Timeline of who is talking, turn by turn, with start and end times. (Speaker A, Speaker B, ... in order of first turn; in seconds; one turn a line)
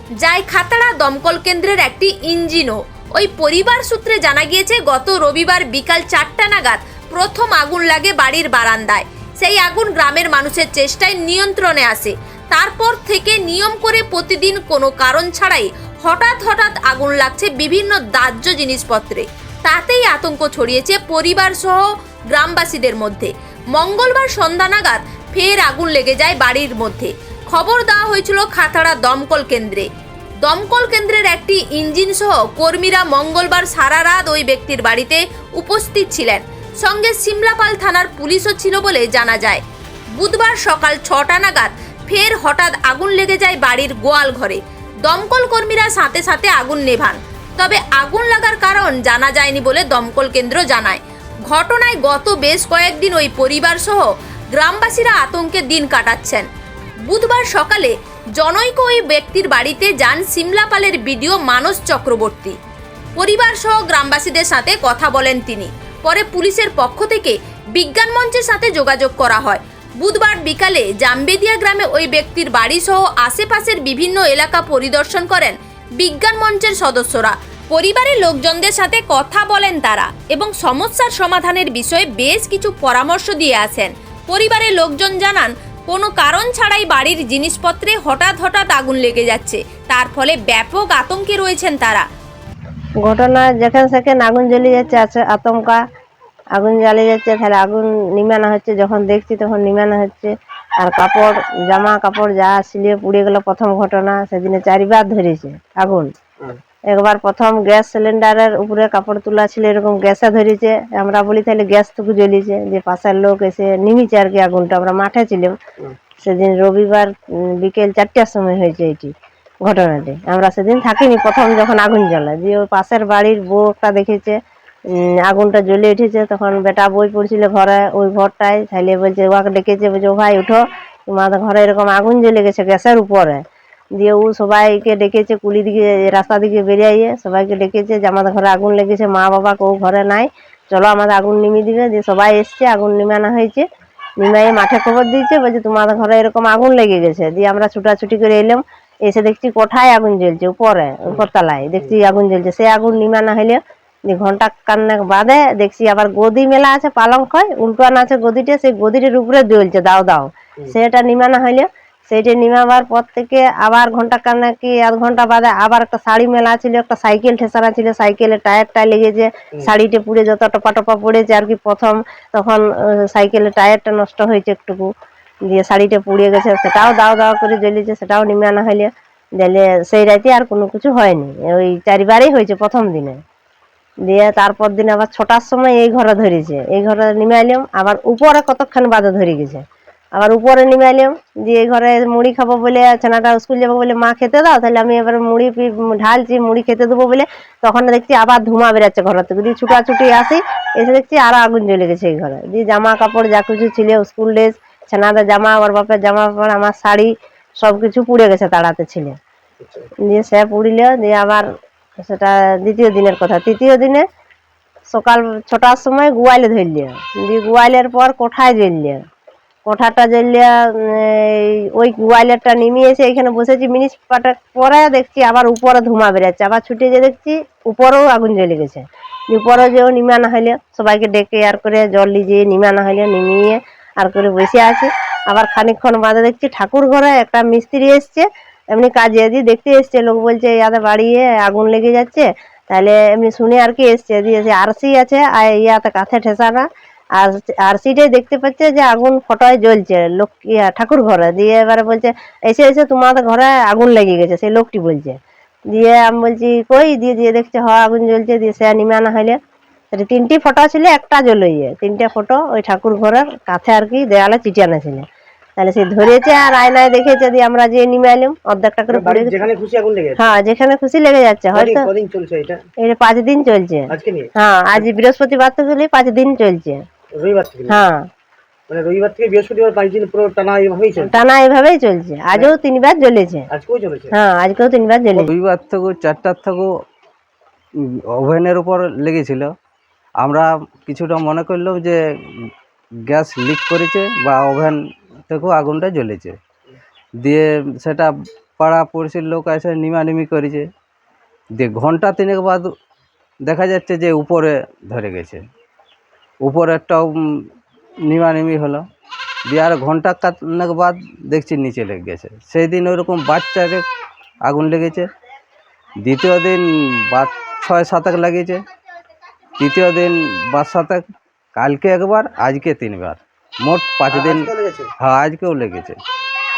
Speaker A: 0.2-29.9
Speaker A: 30.4-39.6
Speaker A: 40.2-56.5
Speaker A: 57.1-62.6
Speaker A: 63.2-92.1
Speaker B: 93.0-95.8
Speaker B: 96.6-106.1
Speaker B: 106.9-115.5
Speaker B: 116.2-119.1
Speaker B: 119.7-124.4
Speaker B: 125.2-133.4
Speaker B: 134.0-143.6
Speaker B: 144.2-174.9
Speaker B: 175.5-183.2
Speaker B: 184.1-189.6
Speaker B: 190.2-209.2
Speaker C: 209.6-209.9
Speaker B: 210.1-211.6
Speaker B: 212.1-214.0
Speaker B: 214.9-219.1
Speaker B: 219.7-246.7
Speaker B: 247.2-255.2
Speaker B: 255.7-259.4
Speaker B: 259.9-265.0
Speaker B: 265.6-269.5
Speaker C: 268.9-270.4
Speaker B: 270.2-271.9
Speaker C: 271.5-272.6
Speaker B: 272.8-273.9
Speaker C: 273.9-274.9
Speaker B: 274.4-276.8
Speaker C: 277.1-277.9
Speaker B: 277.7-278.1
Speaker C: 278.7-281.2
Speaker B: 281.1-283.4
Speaker C: 283.5-284.1
Speaker B: 284.1-285.3
Speaker D: 285.2-286.7
Speaker D: 288.2-289.5
Speaker D: 290.2-292.0
Speaker D: 293.1-296.4
Speaker D: 297.2-300.7
Speaker D: 301.6-302.7
Speaker D: 303.5-305.4
Speaker D: 306.4-307.1
Speaker D: 308.1-308.9
Speaker D: 309.5-313.8
Speaker D: 314.5-315.1
Speaker D: 316.0-318.6
Speaker D: 319.6-321.0
Speaker D: 321.6-324.4
Speaker C: 324.1-324.9
Speaker D: 325.0-326.0